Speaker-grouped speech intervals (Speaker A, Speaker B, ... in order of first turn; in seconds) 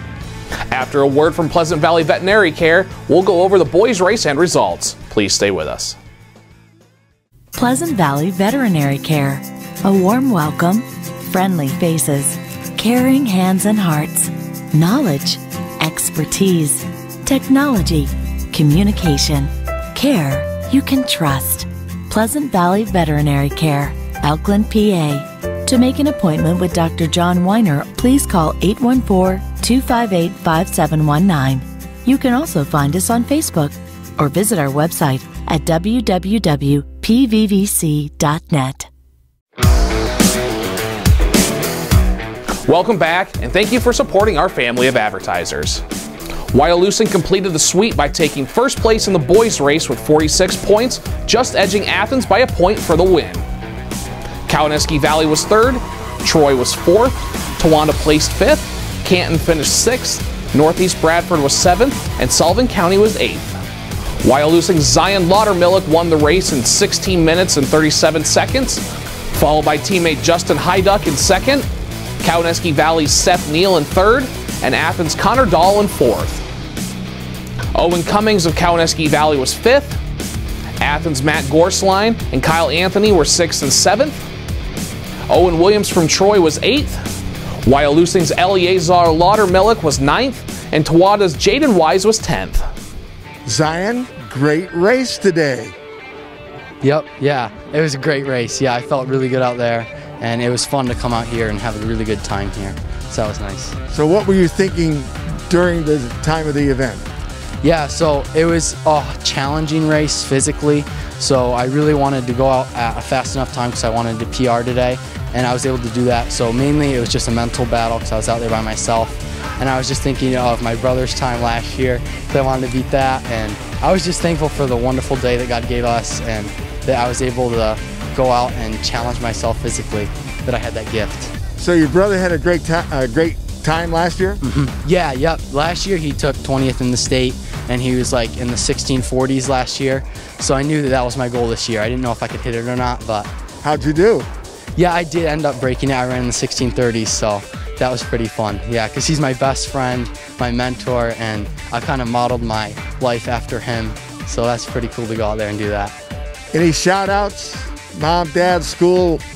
Speaker A: 0.7-6.0, 42.6-45.8, 46.5-53.4, 54.5-63.6, 64.2-71.7, 72.2-76.4, 77.7-80.0, 80.8-84.2, 85.3-87.0, 87.6-92.7
Speaker B: 7.5-38.9
Speaker C: 93.4-95.7, 103.9-107.0, 131.6-134.4, 143.6-144.3, 156.5-159.2
Speaker D: 96.8-103.8, 107.6-131.3, 134.4-143.3, 144.8-155.9